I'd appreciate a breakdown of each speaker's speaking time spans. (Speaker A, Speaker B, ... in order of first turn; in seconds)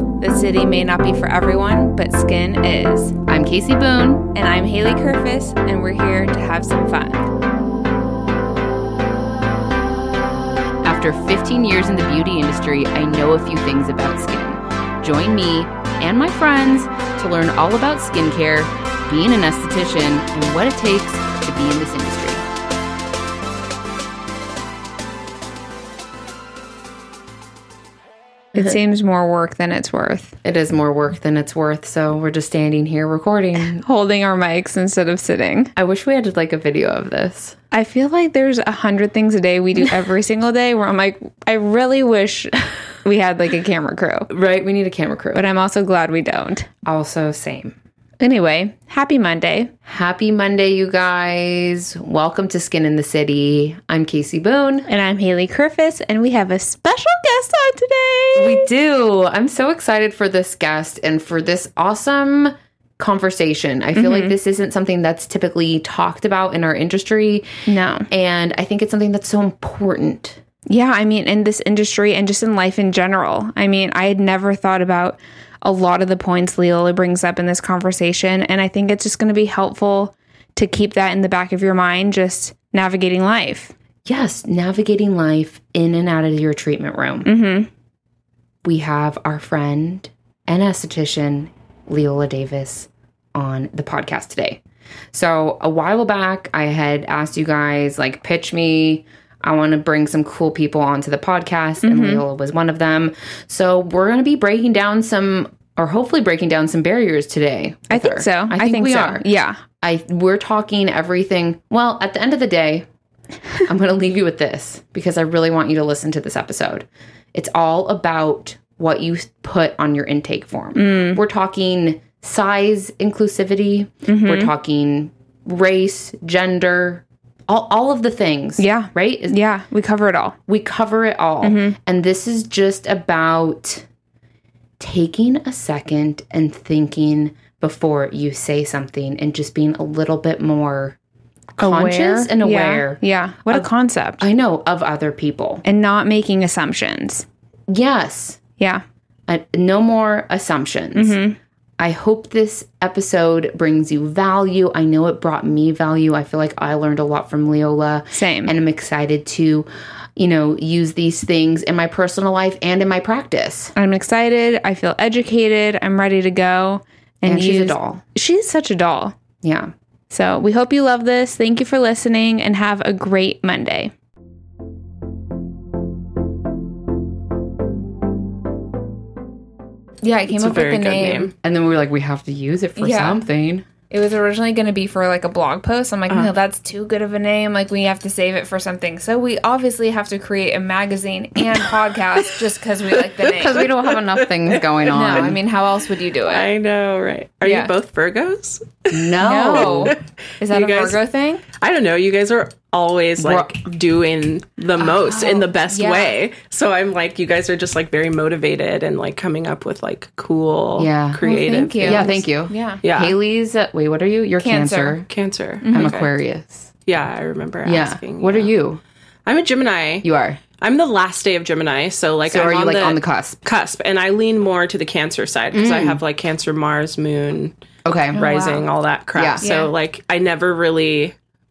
Speaker A: 0.2-3.2, 4.3-7.3, 28.5-30.4, 33.8-35.7, 37.7-44.3, 45.3-46.7, 48.2-49.7, 54.9-58.7, 64.0-64.3, 67.7-68.1, 70.7-83.7, 87.2-87.7, 101.8-102.2, 107.9-109.6, 120.8-121.2, 124.1-124.5, 128.6-130.4, 131.4-131.8, 141.6-144.2, 145.7-147.3, 150.9-151.4, 158.1-158.5, 163.8-169.2, 170.1-173.9, 180.0-181.3, 182.8-183.2, 183.9-193.7, 194.9-196.5, 197.4-197.7, 199.2-201.4, 205.7-206.2, 211.2-212.8, 214.4-215.0, 215.6-216.1, 228.2-228.7, 229.4-229.7
Speaker B: 3.3-4.3, 10.8-22.4, 30.4-33.8, 35.8-37.6, 44.3-45.5, 46.9-47.7, 49.9-54.9, 58.4-67.5, 68.1-70.4, 84.1-87.3, 88.6-94.6, 95.1-109.2, 109.8-112.9, 113.6-129.4, 130.5-133.9, 134.8-141.0, 141.6-143.7, 144.2-145.6, 147.7-148.4, 149.3-151.2, 151.8-163.7, 167.2-168.0, 169.4-169.7, 181.4-183.7, 193.3-195.4, 198.9-200.0, 203.2-203.6, 210.8-215.1, 215.7-216.7, 217.7-218.8, 220.0-220.4, 222.3-223.4, 225.5-226.0, 227.8-228.3, 229.2-229.4
Speaker C: 180.3-181.3, 193.1-195.3, 196.3-201.0, 201.6-212.2, 212.8-213.2, 215.1-216.1, 216.9-218.5, 219.3-220.1, 220.6-227.5, 228.1-231.1